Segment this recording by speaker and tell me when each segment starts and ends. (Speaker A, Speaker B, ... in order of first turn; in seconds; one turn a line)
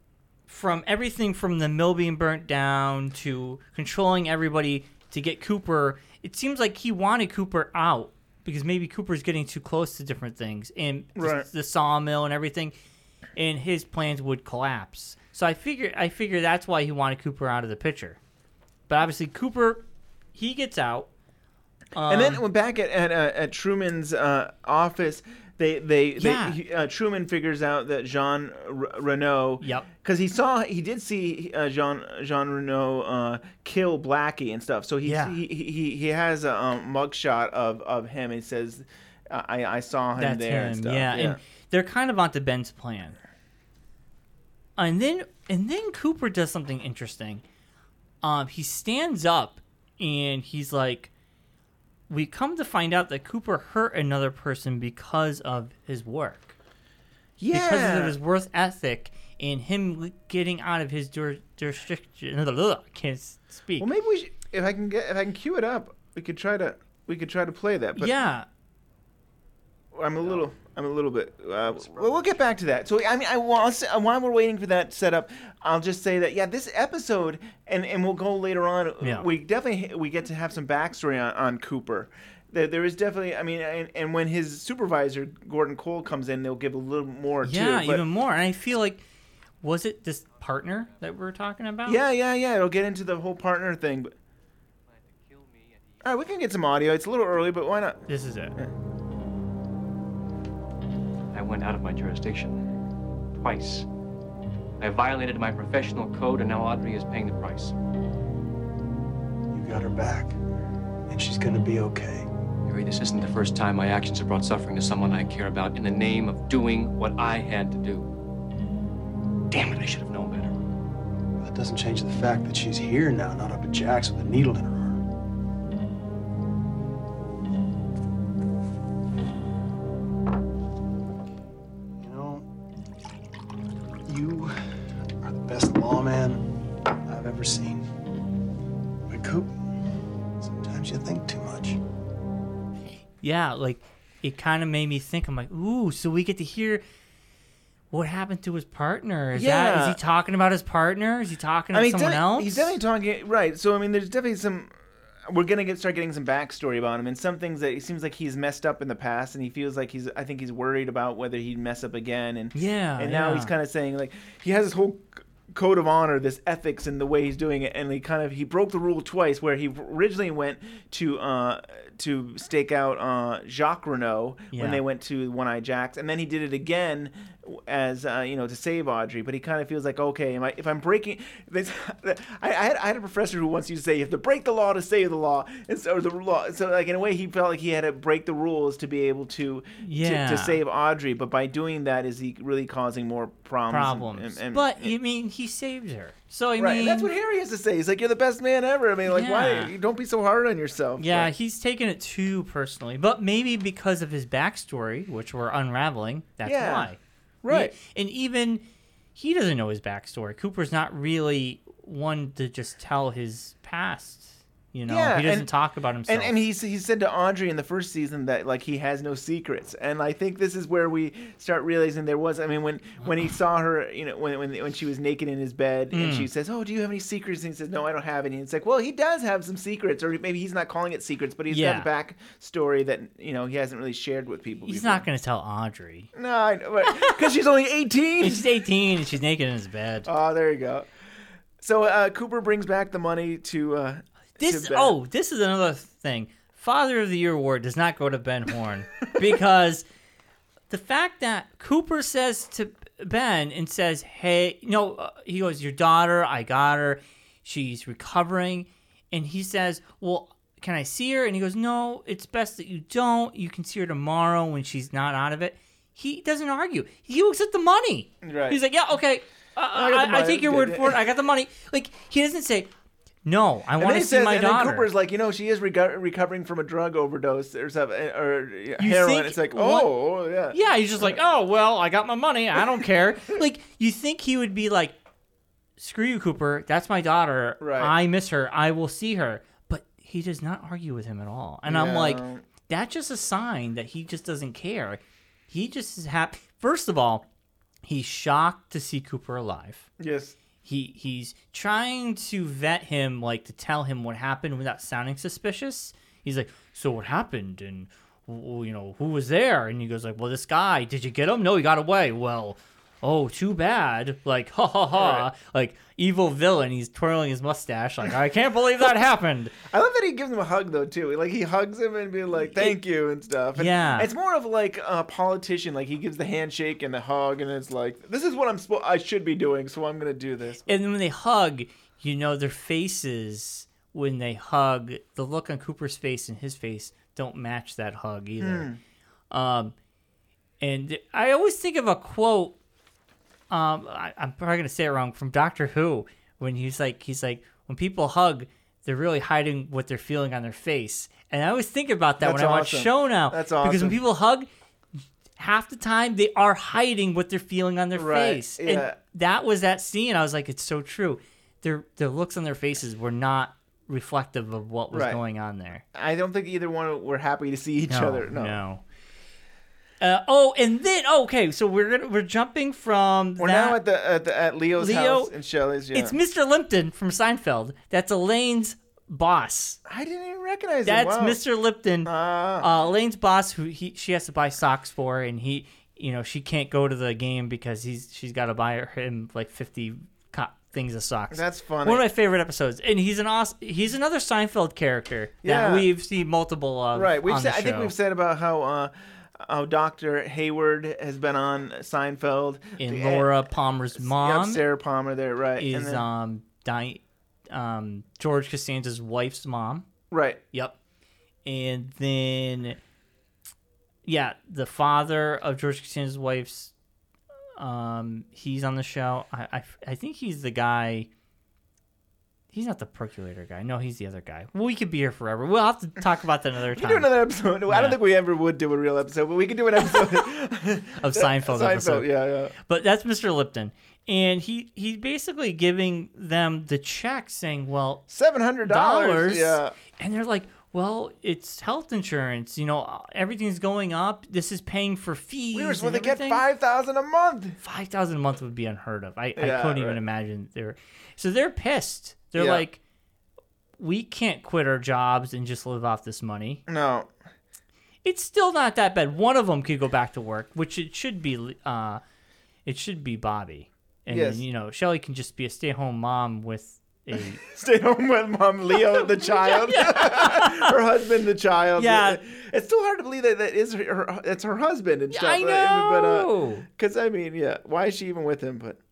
Speaker A: 0.5-12.7
Speaker B: 11.2-11.5
Speaker A: 13.4-18.2
Speaker A: 18.9-19.8
Speaker A: 20.4-21.1
Speaker A: 21.9-22.4
Speaker B: 22.1-41.4
Speaker A: 26.2-26.6
Speaker A: 29.6-29.9
Speaker A: 35.0-35.4
Speaker A: 40.2-43.2
Speaker A: 44.8-47.4
Speaker A: 48.2-51.1
Speaker A: 52.1-56.5
Speaker B: 57.4-58.2
Speaker A: 57.5-63.9
Speaker B: 63.8-68.1
Speaker A: 68.0-68.5
Speaker B: 69.9-88.0
Speaker A: 79.0-79.3
Speaker A: 87.4-89.0
Speaker A: 89.6-92.0
Speaker B: 91.9-94.1
Speaker C: 94.9-96.1
Speaker B: 96.0-98.0
Speaker A: 98.1-98.6
Speaker C: 101.3-102.7
Speaker C: 103.3-103.9
Speaker C: 104.8-107.7
Speaker D: 109.5-110.4
Speaker D: 111.1-112.3
Speaker C: 112.7-118.1
Speaker C: 119.5-120.5
Speaker D: 121.4-125.0
Speaker D: 132.0-132.5
Speaker D: 134.1-134.6
Speaker D: 135.2-136.5
Speaker D: 137.1-137.8
Speaker D: 139.1-139.5
Speaker D: 140.4-141.8
Speaker A: 143.2-146.8
Speaker A: 147.9-152.8
Speaker B: 149.3-150.0
Speaker B: 151.7-194.9
Speaker A: 162.6-163.5
Speaker A: 174.5-174.8
Speaker A: 189.8-190.6
Speaker A: 193.7-197.1
Speaker B: 196.6-201.3
Speaker A: 199.1-199.7
Speaker A: 201.0-208.6
Speaker B: 206.4-206.9
Speaker B: 207.4-207.8
Speaker A: 209.2-216.3
Speaker B: 214.9-215.5
Speaker B: 216.1-235.1
Speaker A: 225.9-226.3
Speaker A: 231.5-231.9
Speaker A: 234.7-236.1
Speaker B: 236.2-238.5
Speaker A: 236.9-237.2
Speaker A: 238.2-240.1
Speaker B: 240.1-240.9
Speaker B: 241.6-245.0
Speaker A: 244.4-249.8
Speaker A: 250.7-272.7
Speaker B: 268.2-268.6
Speaker B: 269.7-271.0
Speaker A: 273.2-274.9
Speaker B: 273.8-281.2
Speaker A: 278.8-279.9
Speaker A: 280.5-285.0
Speaker A: 285.8-297.3
Speaker B: 287.6-287.9
Speaker B: 291.7-292.4
Speaker A: 297.9-299.9
Speaker B: 300.0-300.4
Speaker A: 300.6-319.6
Speaker B: 314.9-315.3
Speaker B: 319.6-330.7
Speaker A: 322.5-322.8
Speaker A: 323.6-324.1
Speaker A: 330.7-338.7
Speaker B: 338.4-338.8
Speaker A: 339.3-339.7
Speaker A: 340.6-342.6
Speaker A: 343.5-354.5
Speaker B: 352.2-354.0
Speaker A: 355.4-365.8
Speaker B: 357.9-359.0
Speaker B: 364.9-365.2
Speaker B: 365.9-368.6
Speaker A: 367.9-368.8
Speaker A: 370.0-373.8
Speaker B: 373.4-376.2
Speaker A: 374.8-375.3
Speaker A: 375.9-379.8
Speaker B: 379.9-381.4
Speaker A: 380.9-397.9
Speaker B: 382.1-382.7
Speaker B: 391.3-392.0
Speaker B: 395.4-395.9
Speaker B: 396.9-403.4
Speaker A: 402.8-404.6
Speaker B: 403.9-406.1
Speaker A: 405.6-409.9
Speaker B: 410.1-410.4
Speaker A: 411.4-412.8
Speaker A: 414.1-416.7
Speaker A: 417.6-421.1
Speaker A: 422.5-427.1
Speaker B: 426.7-432.6
Speaker A: 427.7-428.0
Speaker A: 431.0-438.1
Speaker B: 438.1-439.7
Speaker A: 438.6-446.4
Speaker B: 445.5-447.6
Speaker A: 447.6-452.8
Speaker B: 449.4-450.0
Speaker B: 452.4-452.6
Speaker A: 453.8-456.6
Speaker B: 456.7-457.1
Speaker A: 458.0-462.0
Speaker A: 462.7-467.4
Speaker B: 464.1-464.4
Speaker B: 467.4-478.8
Speaker A: 468.8-470.8
Speaker A: 471.8-472.2
Speaker A: 475.1-476.7